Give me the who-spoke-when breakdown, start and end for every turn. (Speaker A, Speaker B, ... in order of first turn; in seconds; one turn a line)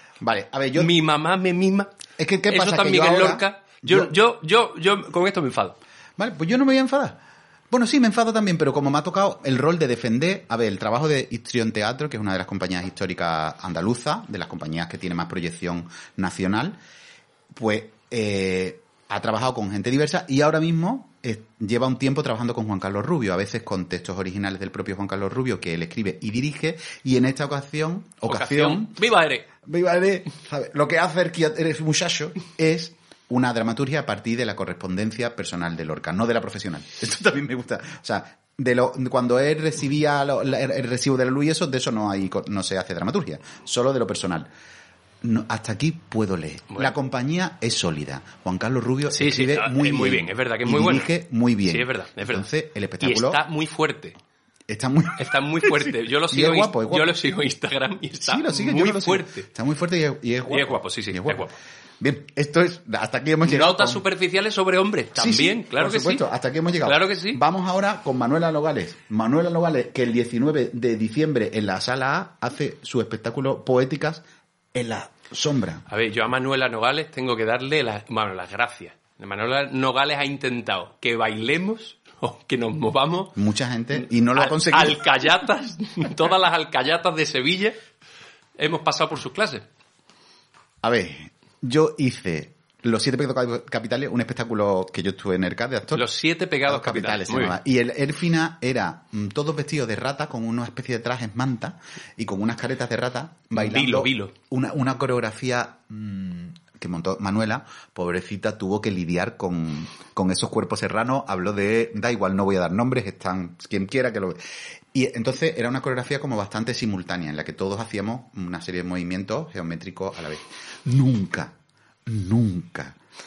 Speaker A: 0.2-0.9
Speaker B: 0.8-1.9
Speaker A: 2.2-4.1
Speaker B: 2.5-5.8
Speaker A: 6.2-7.2
Speaker A: 7.7-16.8
Speaker A: 17.5-29.0
Speaker B: 28.2-29.5
Speaker A: 29.6-44.5
Speaker A: 45.2-53.4
Speaker B: 49.1-51.1
Speaker B: 51.7-52.5
Speaker B: 53.0-54.2
Speaker A: 54.7-57.1
Speaker B: 55.2-59.5
Speaker A: 58.2-61.5
Speaker B: 60.5-61.5
Speaker A: 62.0-64.0
Speaker B: 63.4-66.2
Speaker A: 65.1-75.8
Speaker B: 66.8-67.4
Speaker B: 75.9-83.3
Speaker A: 83.3-85.3
Speaker B: 84.0-87.8
Speaker B: 88.6-89.6
Speaker A: 90.8-96.0
Speaker B: 95.9-97.6
Speaker A: 96.7-121.5
Speaker B: 103.5-104.3
Speaker A: 122.0-123.0